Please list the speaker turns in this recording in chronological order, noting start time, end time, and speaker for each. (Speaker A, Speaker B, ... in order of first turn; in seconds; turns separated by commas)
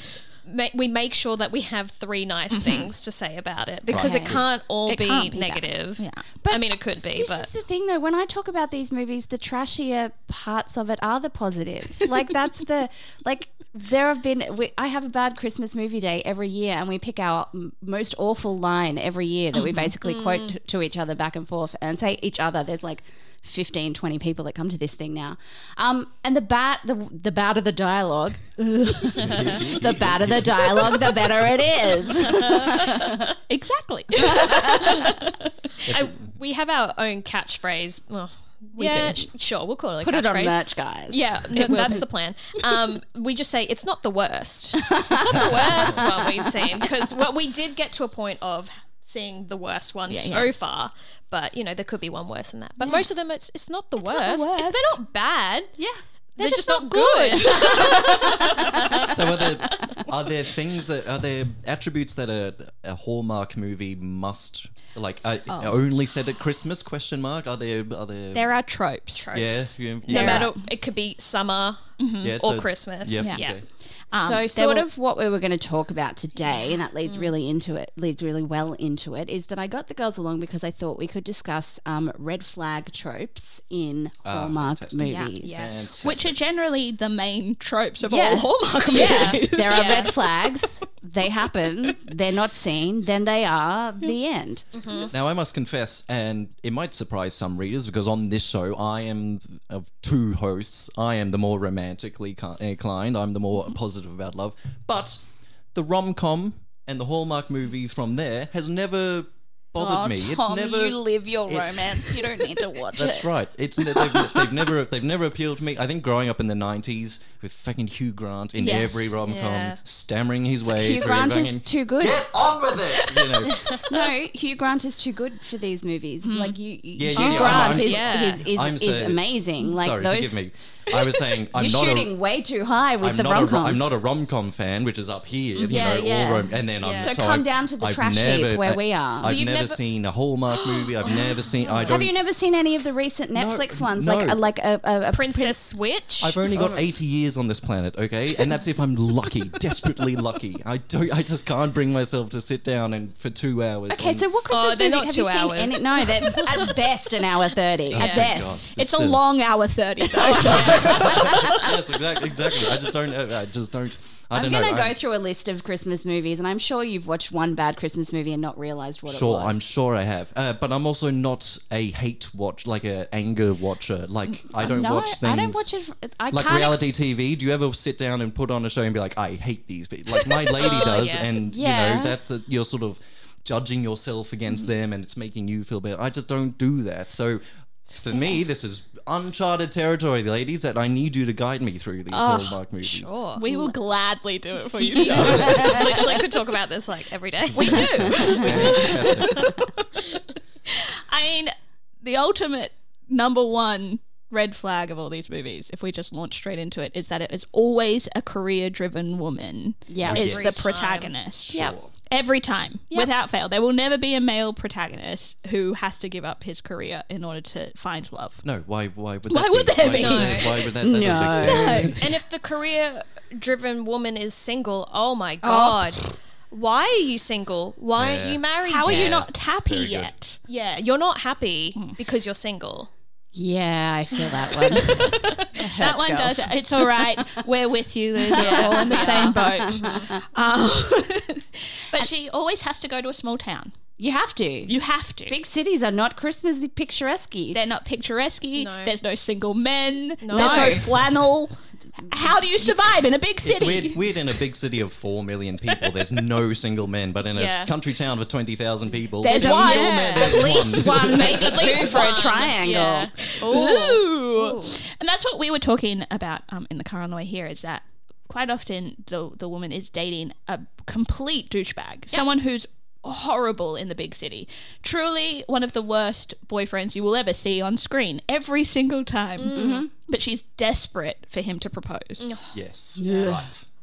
Speaker A: 0.4-7.5, Speaker B: 2.5-2.9, Speaker C: 3.9-4.4, Speaker D: 3.9-4.4, Speaker B: 4.9-6.4, Speaker D: 6.4-33.4, Speaker B: 19.5-19.9, Speaker A: 20.0-20.6, Speaker C: 29.2-31.7, Speaker B: 33.5-35.5, Speaker D: 34.2-35.0, Speaker C: 35.9-36.1, Speaker A: 35.9-55.7, Speaker B: 38.8-39.2, Speaker D: 40.0-41.9, Speaker B: 41.5-42.0, Speaker D: 44.8-46.1, Speaker C: 45.3-46.0, Speaker B: 50.1-50.5, Speaker B: 52.8-53.1, Speaker B: 54.0-55.0, Speaker A: 56.4-59.5, Speaker B: 56.4-59.1, Speaker D: 58.2-59.1, Speaker C: 59.1-68.5, Speaker B: 65.5-65.8, Speaker B: 68.3-69.3, Speaker A: 69.1-73.6, Speaker C: 69.3-70.5, Speaker B: 70.1-70.6, Speaker B: 72.0-72.3, Speaker C: 72.2-73.6, Speaker B: 73.2-73.5, Speaker B: 74.1-74.9, Speaker D: 74.1-85.8, Speaker A: 77.1-77.3, Speaker C: 84.2-86.3, Speaker B: 85.0-90.6, Speaker A: 85.4-86.0, Speaker D: 88.0-94.7, Speaker A: 88.9-90.1, Speaker A: 94.8-95.1, Speaker C: 95.1-123.9, Speaker D: 109.8-114.6, Speaker B: 118.6-119.1, Speaker A: 119.2-119.8, Speaker D: 120.7-122.3, Speaker D: 123.9-130.4, Speaker B: 126.2-126.6, Speaker C: 127.0-132.1, Speaker B: 127.2-127.8, Speaker A: 127.3-128.4, Speaker D: 131.5-133.9, Speaker C: 133.0-142.1, Speaker A: 135.6-135.9, Speaker D: 135.6-139.3, Speaker A: 136.8-137.2, Speaker A: 139.2-139.8, Speaker A: 140.5-142.1, Speaker D: 141.9-145.5, Speaker C: 143.3-144.4, Speaker A: 145.1-146.8, Speaker C: 146.2-154.2, Speaker D: 153.9-158.7, Speaker A: 154.5-156.7, Speaker C: 157.9-159.2, Speaker A: 157.9-158.3, Speaker B: 158.7-161.8, Speaker D: 160.1-161.6, Speaker C: 160.4-165.0, Speaker D: 164.3-169.6, Speaker C: 169.1-175.7, Speaker D: 174.6-176.8, Speaker C: 176.3-193.1, Speaker A: 180.5-181.3, Speaker D: 181.4-182.2, Speaker B: 192.1-192.6, Speaker A: 192.8-193.5, Speaker B: 193.3-196.1, Speaker A: 194.9-199.3, Speaker C: 195.2-195.6, Speaker D: 195.4-195.8, Speaker B: 197.5-199.8, Speaker C: 197.7-199.5, Speaker B: 200.7-218.4, Speaker D: 209.9-210.6, Speaker C: 210.0-210.7, Speaker A: 210.1-211.1, Speaker C: 211.5-211.9, Speaker C: 218.4-222.1, Speaker B: 219.3-222.0, Speaker A: 219.8-220.5, Speaker D: 220.8-221.9, Speaker A: 221.9-229.2, Speaker B: 225.4-226.2, Speaker C: 227.9-230.1, Speaker B: 228.7-230.4, Speaker A: 230.5-232.9, Speaker D: 233.3-237.4, Speaker B: 234.3-243.7, Speaker D: 238.2-240.2, Speaker A: 238.3-240.1, Speaker D: 244.0-244.8, Speaker B: 244.7-245.4, Speaker D: 245.3-247.6, Speaker B: 247.5-254.1, Speaker A: 248.6-248.9, Speaker A: 250.2-250.8, Speaker D: 250.3-250.9, Speaker C: 253.4-261.9, Speaker A: 257.3-257.7, Speaker B: 259.2-260.7, Speaker D: 259.2-263.1, Speaker A: 261.1-264.8, Speaker B: 261.3-262.2, Speaker B: 263.2-282.3, Speaker A: 279.4-279.9, Speaker D: 279.5-279.9, Speaker A: 282.2-282.5, Speaker C: 282.5-283.7, Speaker D: 283.0-283.5